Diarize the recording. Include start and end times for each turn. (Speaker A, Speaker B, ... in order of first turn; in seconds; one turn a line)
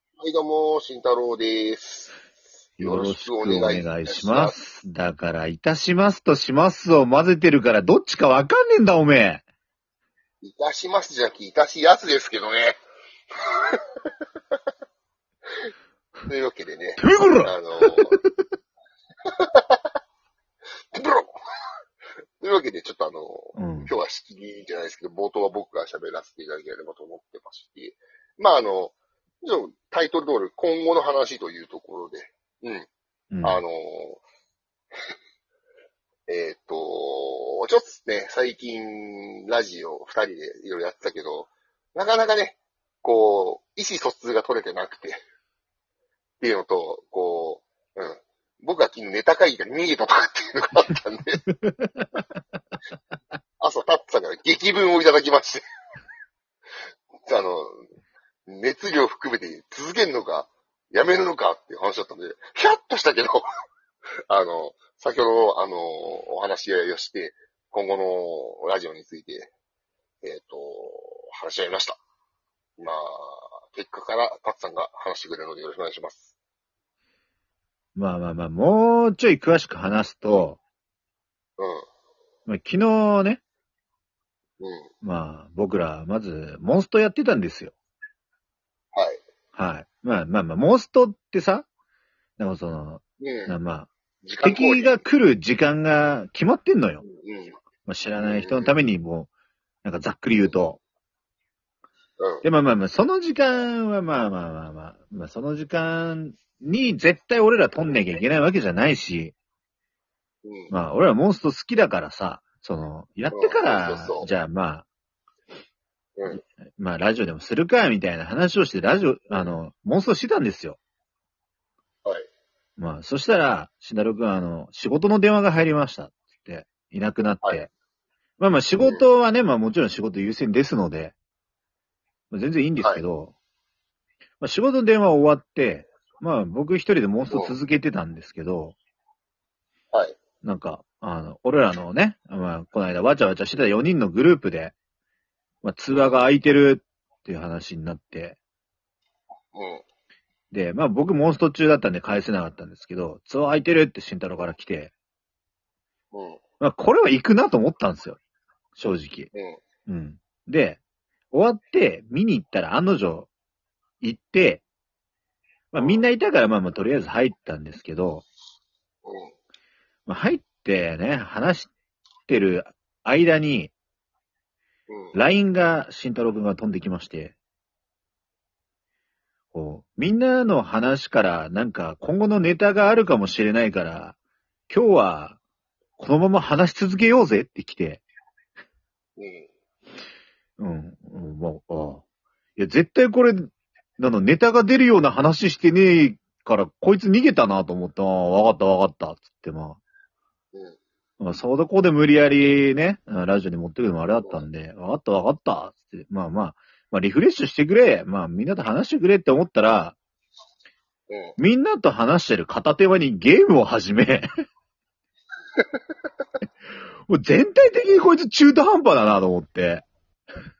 Speaker A: 0.2-2.1
Speaker B: 2.8-9.4
Speaker A: 2.8-4.6
Speaker A: 10.4-12.8
Speaker A: 13.4-13.9
Speaker A: 16.3-18.2
Speaker B: 17.0-18.2
Speaker A: 19.3-19.8
Speaker A: 20.9-21.4
Speaker A: 22.4-32.9
Speaker B: 23.5-23.9
Speaker B: 33.3-33.6
Speaker A: 33.4-34.2
Speaker A: 36.3-45.2
Speaker A: 46.4-51.4
Speaker B: 51.6-52.1
Speaker A: 53.6-55.6
Speaker A: 57.2-57.8
Speaker A: 58.5-63.5
Speaker A: 64.3-69.5
Speaker A: 70.2-72.0
Speaker A: 72.8-76.3
Speaker B: 78.0-80.6
Speaker A: 81.6-81.8
Speaker B: 82.5-83.4
Speaker A: 84.6-84.9
Speaker B: 85.0-87.7
Speaker A: 88.9-89.2
Speaker B: 89.5-91.7
Speaker B: 92.4-93.9
Speaker A: 93.2-93.5
Speaker A: 94.2-95.0
Speaker B: 94.4-97.0
Speaker A: 97.0-97.6
Speaker B: 97.8-99.3
Speaker A: 98.2-98.7
Speaker B: 99.8-100.8
Speaker B: 102.4-109.3
Speaker A: 110.4-110.7
Speaker B: 110.7-114.8
Speaker A: 113.3-114.3
Speaker A: 116.2-116.4
Speaker B: 116.3-120.8
Speaker B: 122.8-127.7
Speaker B: 128.4-131.1
Speaker B: 132.3-133.3
Speaker B: 134.4-138.8
Speaker A: 137.3-137.5
Speaker A: 139.9-140.2
Speaker B: 140.4-144.7
Speaker B: 145.6-148.4
Speaker A: 145.9-146.2
Speaker A: 149.5-149.8
Speaker B: 150.5-154.9
Speaker A: 156.1-156.4
Speaker B: 156.6-158.2
Speaker B: 158.8-159.3
Speaker A: 159.3-159.6
Speaker B: 159.8-160.8
Speaker B: 161.3-163.3
Speaker B: 164.0-164.6
Speaker B: 165.7-168.2
Speaker A: 165.8-166.0
Speaker A: 169.0-169.3
Speaker B: 170.1-171.7
Speaker B: 172.3-173.7
Speaker A: 174.9-175.2
Speaker B: 175.1-177.3
Speaker B: 179.5-184.2
Speaker B: 184.7-185.4
Speaker B: 186.0-188.0
Speaker A: 189.2-189.5
Speaker B: 190.6-192.0
Speaker B: 192.6-199.8
Speaker B: 201.2-209.9
Speaker A: 204.2-204.4
Speaker A: 211.1-211.4
Speaker B: 211.4-214.3
Speaker B: 217.1-219.8